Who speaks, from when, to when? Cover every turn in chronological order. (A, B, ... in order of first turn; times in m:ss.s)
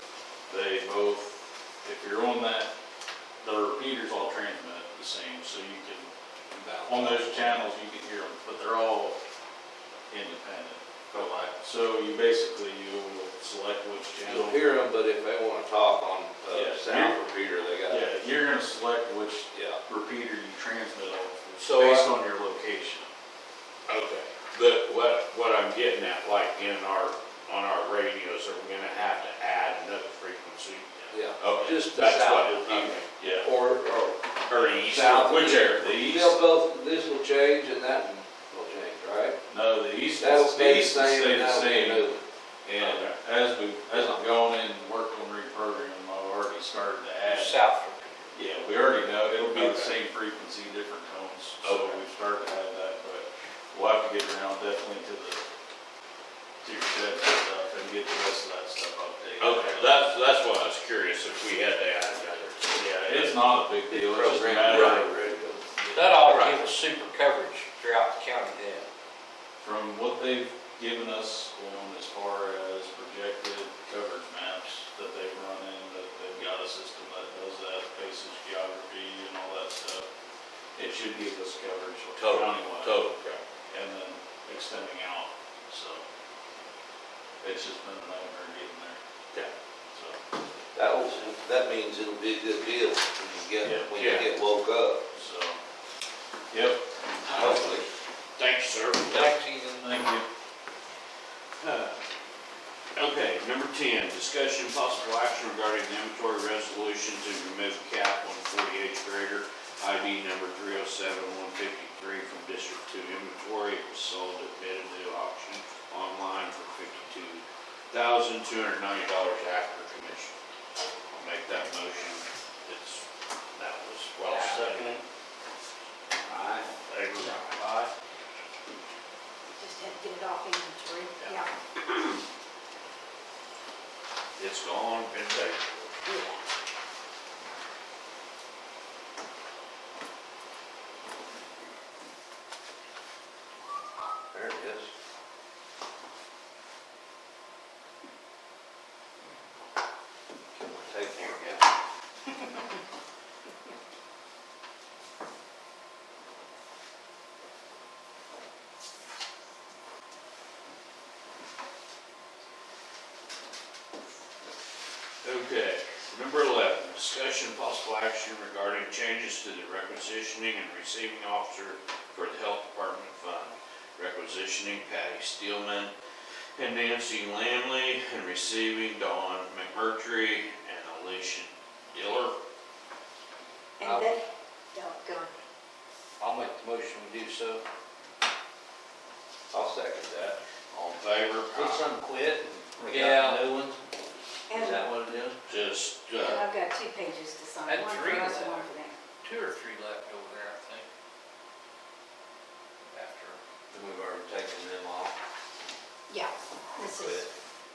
0:00.5-0:02.7 A
0:03.4-0:06.1 A
0:06.5-0:07.6 B
0:06.9-0:09.2 A
0:10.1-0:14.6 A
0:14.2-0:18.1 B
0:16.5-0:17.2 A
0:17.9-0:23.1 A
0:19.5-0:19.8 B
0:21.6-0:22.1 B
0:23.9-0:33.1 C
0:31.1-0:39.4 B
0:33.2-0:33.5 A
0:34.5-0:35.9 C
0:35.8-0:36.4 A
0:39.5-0:42.1 A
0:40.2-0:42.2 B
0:42.7-0:47.6 A
0:43.9-0:44.3 B
0:47.3-0:48.3 D
0:48.3-0:55.5 A
0:49.5-0:49.9 C
0:51.6-0:52.0 C
0:56.6-1:00.1 A
0:59.4-1:03.4 C
1:02.8-1:05.1 A
1:03.9-1:05.6 B
1:04.7-1:05.0 C
1:05.8-1:06.1 A
1:05.9-1:08.8 D
1:06.3-1:06.6 C
1:09.6-1:20.1 A
1:20.8-1:23.0 A
1:22.1-1:23.4 C
1:23.7-1:26.0 A
1:27.4-1:29.0 A
1:29.9-1:30.2 A
1:30.8-1:35.0 B
1:33.6-1:33.9 A
1:33.9-1:34.3 C
1:35.1-1:35.6 A
1:36.5-1:37.6 A
1:37.3-1:37.9 B
1:38.4-1:39.3 C
1:39.2-1:40.0 D
1:39.8-1:40.2 A
1:41.6-1:41.9 C
1:43.0-2:00.3 C
2:01.1-2:03.0 C
2:03.6-2:05.0 C
2:04.3-2:05.0 B
2:06.3-2:06.7 B
2:06.7-2:07.7 C
2:09.6-2:11.5 E
2:11.2-2:12.0 C
2:14.4-2:15.9 C
2:16.1-2:16.4 E
2:24.3-2:24.9 B
2:30.5-2:31.6 B
2:45.2-2:55.9 C
2:56.6-3:02.4 C
3:03.8-3:05.3 E
3:03.8-3:04.2 D
3:06.2-3:07.6 D
3:09.5-3:10.4 B
3:10.7-3:11.9 C
3:11.5-3:13.8 B
3:12.9-3:13.4 D
3:14.5-3:14.9 E
3:14.5-3:15.4 B
3:15.5-3:16.5 C
3:16.2-3:19.0 E
3:17.6-3:18.7 D
3:19.2-3:20.8 D
3:22.8-3:23.4 D
3:23.7-3:25.2 B
3:26.1-3:27.3 E
3:26.9-3:27.3 B